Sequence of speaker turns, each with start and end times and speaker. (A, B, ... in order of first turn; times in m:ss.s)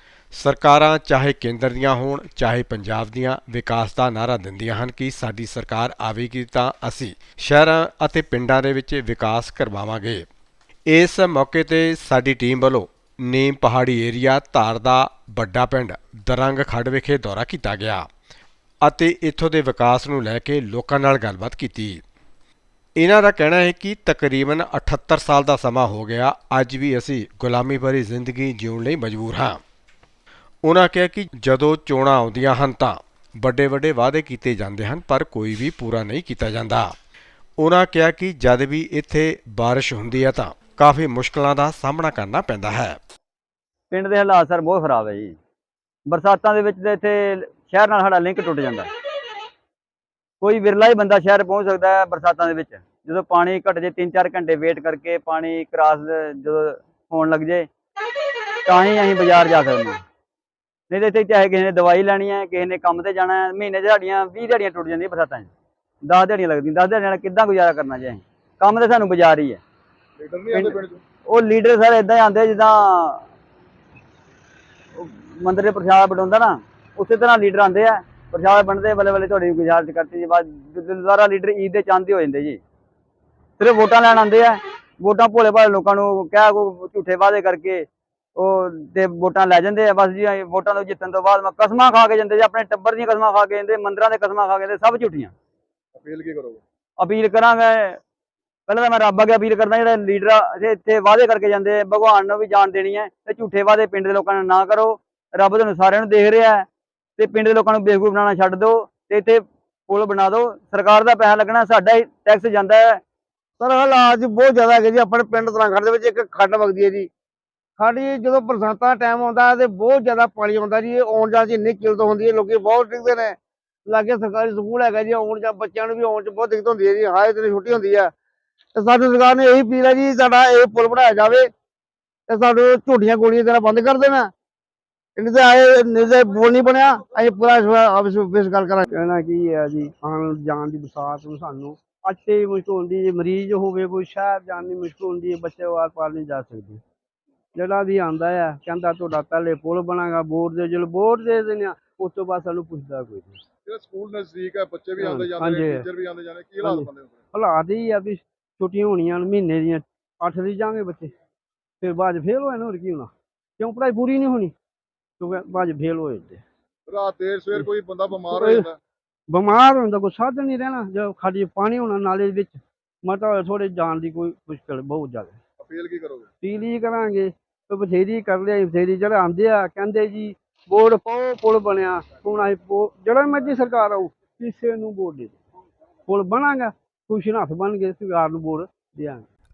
0:00.3-0:10.3 A
0:10.9-0:18.1 A
0:18.8-0:22.0 A
0:23.0-0:29.6 A
0:30.6-0:36.9 A
0:37.6-0:43.0 A
0:43.9-0:45.4 B
0:46.1-0:48.9 B
0:50.4-0:57.7 B
0:58.7-1:00.0 B
1:00.9-1:05.5 B
1:06.1-1:09.6 B
1:10.2-1:11.0 C
1:10.5-1:13.2 B
1:15.0-1:22.6 B
1:23.6-1:27.8 B
1:28.4-1:35.3 B
1:36.0-1:36.6 C
1:37.0-1:38.0 B
1:38.7-1:46.7 B
1:47.2-1:53.0 B
1:53.6-1:57.1 D
1:57.8-2:08.1 D
2:08.7-2:11.5 D
2:12.3-2:14.3 D
2:15.2-2:18.9 D
2:18.9-2:26.8 E
2:27.5-2:33.4 E
2:33.7-2:37.2 C
2:35.0-2:35.8 E
2:36.6-2:41.1 E
2:41.8-2:44.5 E
2:45.2-2:46.4 E
2:46.9-2:48.8 C
2:48.3-2:48.7 E
2:49.3-2:55.4 E
2:55.6-2:56.3 C
2:56.4-3:05.4 E
3:06.1-3:09.3 E